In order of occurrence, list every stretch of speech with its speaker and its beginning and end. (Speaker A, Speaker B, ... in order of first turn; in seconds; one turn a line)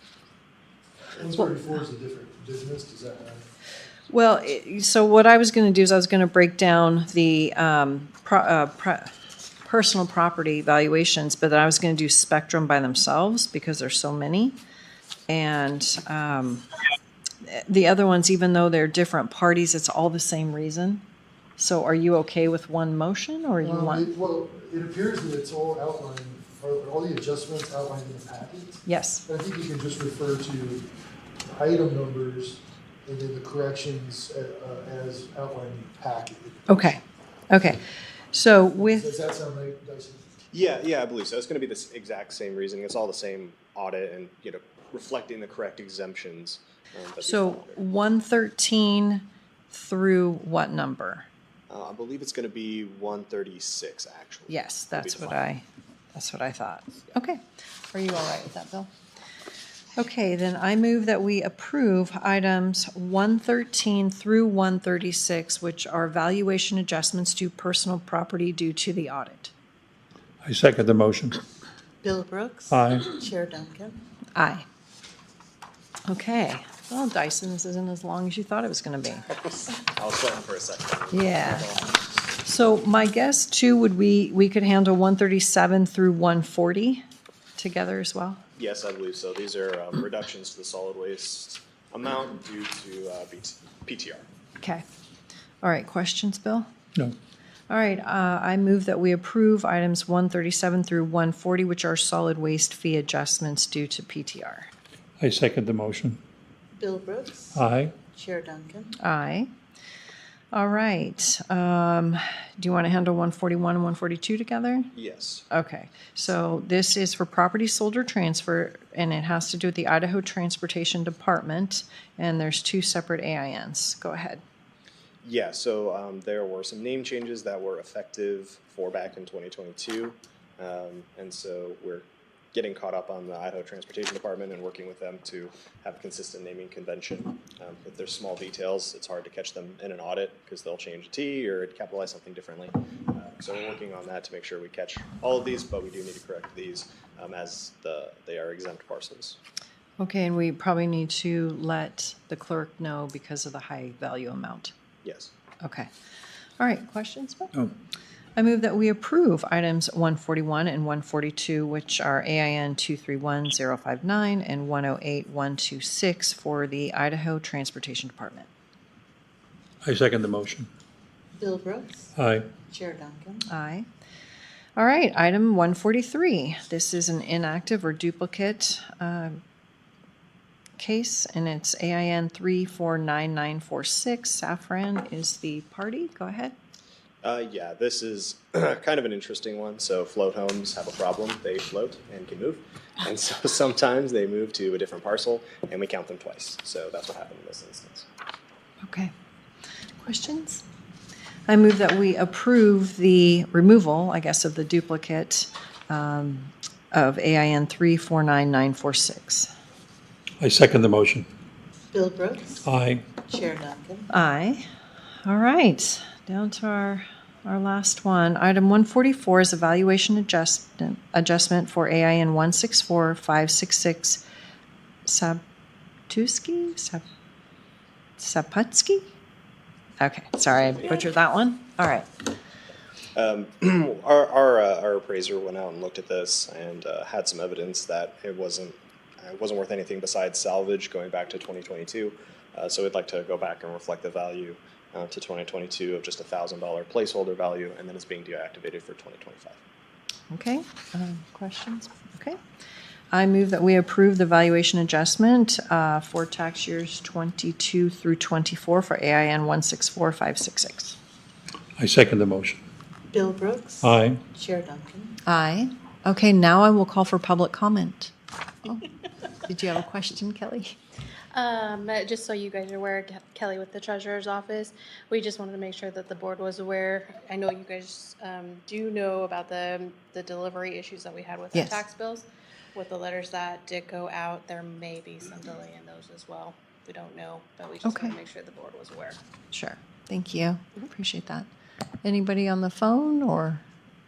Speaker A: 1.2-3.5
Speaker B: 4.1-9.1
Speaker B: 9.6-14.6
Speaker B: 15.3-16.7
Speaker B: 17.4-21.0
Speaker B: 21.6-24.1
Speaker A: 23.6-30.9
Speaker B: 28.9-29.2
Speaker A: 31.5-37.0
Speaker B: 36.7-39.1
Speaker A: 38.9-40.2
Speaker C: 40.5-47.8
Speaker B: 47.2-51.3
Speaker C: 51.7-55.5
Speaker B: 54.5-58.9
Speaker B: 60.0-69.5
Speaker D: 70.4-71.4
Speaker E: 72.0-74.0
Speaker D: 72.7-73.1
Speaker B: 74.4-74.7
Speaker B: 76.1-79.3
Speaker C: 79.9-82.0
Speaker B: 81.1-81.8
Speaker B: 82.4-87.0
Speaker B: 87.6-88.4
Speaker C: 88.6-94.3
Speaker B: 95.6-96.7
Speaker B: 97.7-104.7
Speaker D: 105.2-106.2
Speaker E: 106.8-108.9
Speaker D: 107.5-108.0
Speaker B: 109.0-109.5
Speaker B: 110.5-114.9
Speaker C: 114.9-115.5
Speaker B: 115.5-124.4
Speaker C: 125.2-149.4
Speaker B: 150.0-154.7
Speaker C: 155.0-155.3
Speaker B: 155.6-155.9
Speaker B: 156.6-157.5
Speaker B: 158.4-168.5
Speaker D: 169.8-170.7
Speaker E: 171.4-172.1
Speaker D: 172.2-172.5
Speaker E: 172.6-173.5
Speaker B: 173.5-173.9
Speaker B: 174.8-179.4
Speaker B: 180.8-186.6
Speaker C: 187.2-198.1
Speaker B: 198.8-199.1
Speaker B: 200.0-200.7
Speaker B: 201.5-209.5
Speaker D: 210.4-211.3
Speaker E: 211.9-212.7
Speaker D: 212.6-213.1
Speaker E: 213.2-214.1
Speaker B: 214.1-214.7
Speaker B: 215.2-224.2
Speaker B: 225.1-225.4
Speaker B: 226.1-227.0
Speaker B: 228.2-229.1
Speaker B: 230.0-232.1
Speaker C: 233.2-249.6
Speaker B: 250.3-252.4
Speaker B: 253.1-261.0
Speaker D: 261.8-262.6
Speaker E: 263.1-265.2
Speaker D: 263.8-264.2
Speaker B: 265.3-270.8
Speaker F: 271.3-289.2
Speaker B: 281.5-281.8
Speaker B: 287.8-288.2
Speaker B: 289.5-291.5
Speaker B: 292.0-293.6